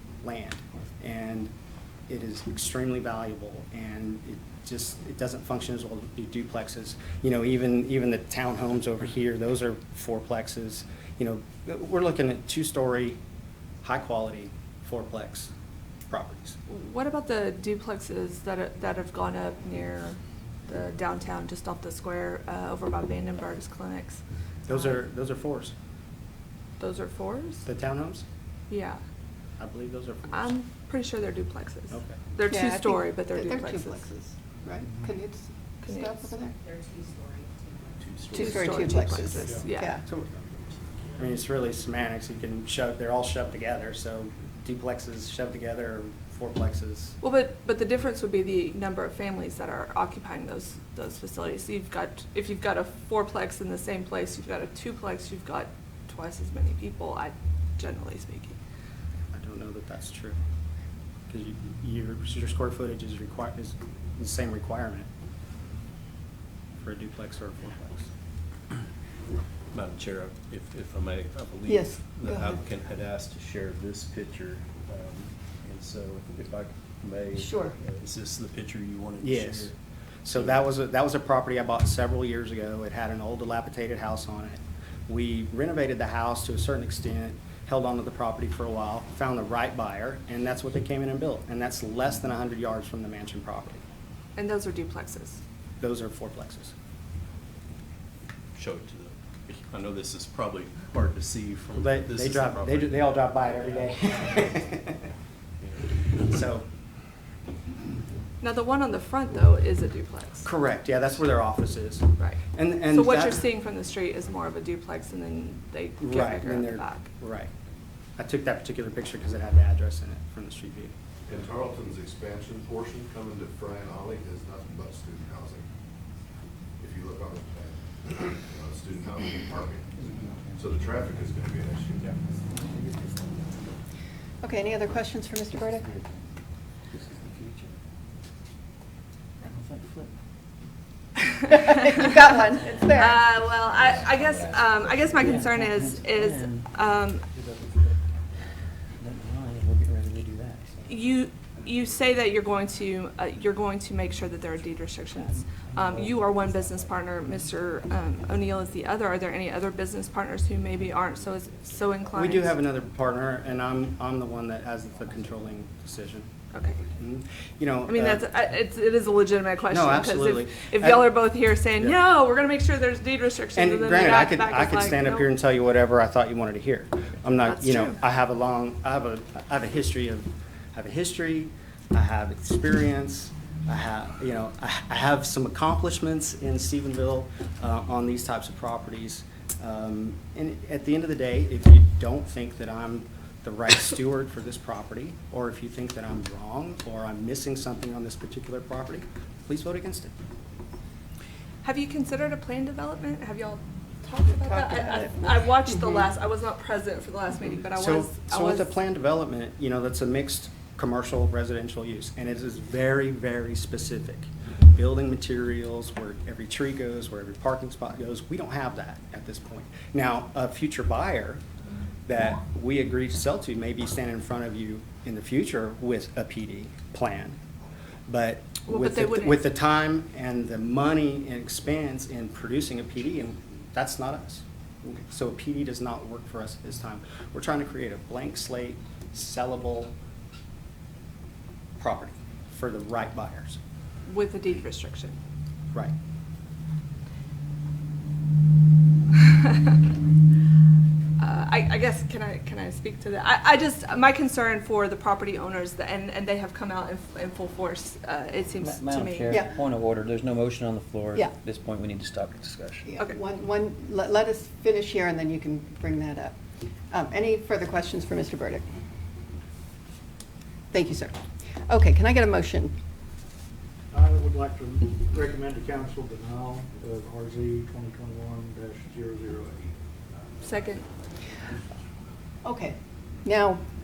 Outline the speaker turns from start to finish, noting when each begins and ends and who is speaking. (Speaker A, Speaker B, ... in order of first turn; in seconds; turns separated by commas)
Speaker A: 0.2-1.5, Speaker A: 2.1-13.2, Speaker A: 13.8-15.5, Speaker A: 16.1-16.6, Speaker B: 16.7-24.2, Speaker A: 24.7-25.7, Speaker B: 26.8-27.7, Speaker A: 27.6-28.2, Speaker B: 28.7-29.0, Speaker A: 29.6-30.5, Speaker B: 30.3-34.0, Speaker A: 31.9-32.2, Speaker C: 32.5-36.6, Speaker B: 35.8-36.3, Speaker D: 38.0-39.1, Speaker C: 38.3-40.0, Speaker B: 38.3-40.0, Speaker A: 41.2-47.2, Speaker B: 47.2-58.6, Speaker A: 59.3-60.4, Speaker A: 61.3-65.1, Speaker A: 66.8-68.1, Speaker D: 69.7-79.8, Speaker C: 71.7-72.6, Speaker C: 77.4-77.8, Speaker A: 79.2-79.7, Speaker A: 80.2-93.8, Speaker B: 94.4-95.4, Speaker A: 95.8-96.7, Speaker D: 98.5-103.4, Speaker A: 101.8-105.0, Speaker D: 105.6-105.9, Speaker A: 106.2-106.7, Speaker B: 108.4-110.5, Speaker A: 110.4-113.5, Speaker B: 112.2-117.1, Speaker A: 116.0-117.5, Speaker A: 118.2-120.9, Speaker E: 121.3-125.7, Speaker E: 126.8-130.0, Speaker E: 130.5-132.2, Speaker C: 134.4-135.9, Speaker F: 136.9-137.8, Speaker F: 139.4-140.1, Speaker B: 141.5-147.3, Speaker C: 141.5-143.3, Speaker F: 144.2-144.6, Speaker F: 145.1-146.7, Speaker F: 149.0-150.9, Speaker B: 150.9-162.6, Speaker F: 155.7-156.1, Speaker A: 162.1-166.3, Speaker B: 166.5-166.8, Speaker A: 166.9-168.3, Speaker B: 167.9-175.3, Speaker A: 169.7-171.1, Speaker A: 173.5-200.1, Speaker B: 177.4-178.0, Speaker B: 201.6-208.7, Speaker C: 204.3-206.0, Speaker A: 207.8-221.4, Speaker A: 222.1-227.4, Speaker A: 228.1-239.9, Speaker B: 228.7-229.4, Speaker A: 241.8-243.6, Speaker B: 244.1-245.2, Speaker B: 249.1-249.8, Speaker B: 251.2-259.4, Speaker F: 258.6-262.9, Speaker C: 259.3-259.6, Speaker C: 262.9-266.4, Speaker C: 266.9-268.7, Speaker C: 270.7-271.2, Speaker C: 271.7-272.7, Speaker G: 273.9-281.6, Speaker B: 280.4-280.9, Speaker C: 282.4-283.6